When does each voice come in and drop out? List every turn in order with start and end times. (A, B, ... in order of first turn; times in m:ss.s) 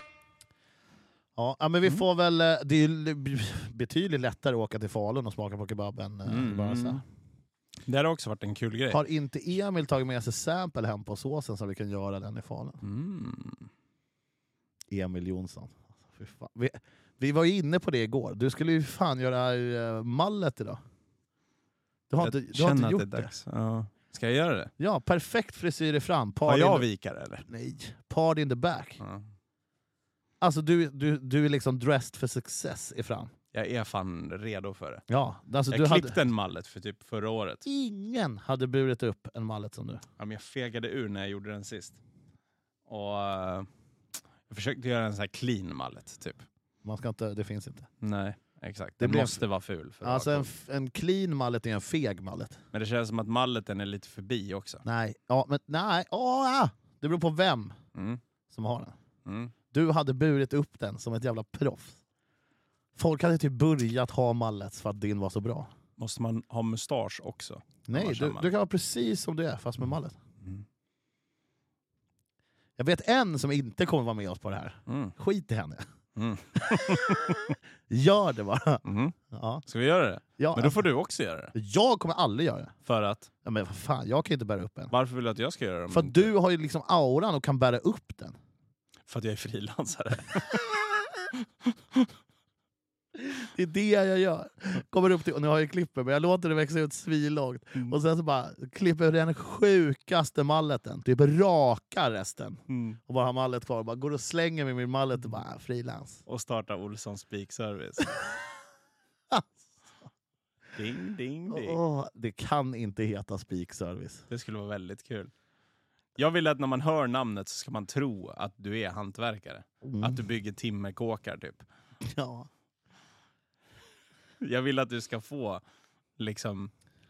0:01.4-0:07.0 A
0:06.3-0:07.0 B
0:07.8-0:09.0 B
0:08.9-0:12.8 A
0:12.8-0:13.7 B
0:14.9-0:20.8 A
0:22.1-0:23.3 A
0:22.2-0:24.7 B
0:24.8-0:26.9 A
0:26.5-0:27.5 B
0:27.5-0:29.0 A
0:29.0-0:29.3 B
0:30.4-0:33.3 A
0:33.5-0:35.0 B
0:35.1-0:36.2 A
0:35.7-0:37.6 B
0:37.6-0:40.0 A
0:40.2-0:42.0 B
0:42.9-0:43.7 B
0:44.5-0:46.5 B
0:46.8-0:47.9 A
0:48.0-0:50.5 B
0:49.0-0:49.4 A
0:50.0-0:52.6 A
0:52.7-0:54.8 B
0:54.8-0:57.8 A
0:58.0-0:58.2 B
0:58.5-0:59.0 A
0:59.3-0:59.5 B
0:59.7-1:02.0 A
1:03.0-1:05.7 A
1:06.0-1:08.5 B
1:07.9-1:10.2 A
1:12.8-1:15.8 A
1:14.9-1:15.1 B
1:16.2-1:17.6 B
1:16.6-1:19.6 A
1:18.8-1:19.2 B
1:19.7-1:21.5 B
1:20.4-1:20.8 A
1:21.5-1:22.7 A
1:22.9-1:23.3 B
1:23.4-1:24.9 A
1:24.9-1:26.3 B
1:25.9-1:28.4 A
1:29.1-1:30.6 B
1:31.3-1:32.1 B
1:33.2-1:46.2 A
1:42.7-1:43.0 B
1:46.3-1:48.2 B
1:50.8-1:51.8 B
1:51.5-1:54.2 A
1:54.3-1:55.3 B
1:56.2-2:01.7 B
1:59.8-2:00.2 A
2:02.0-2:02.5 A
2:04.4-2:05.6 B
2:06.2-2:06.7 B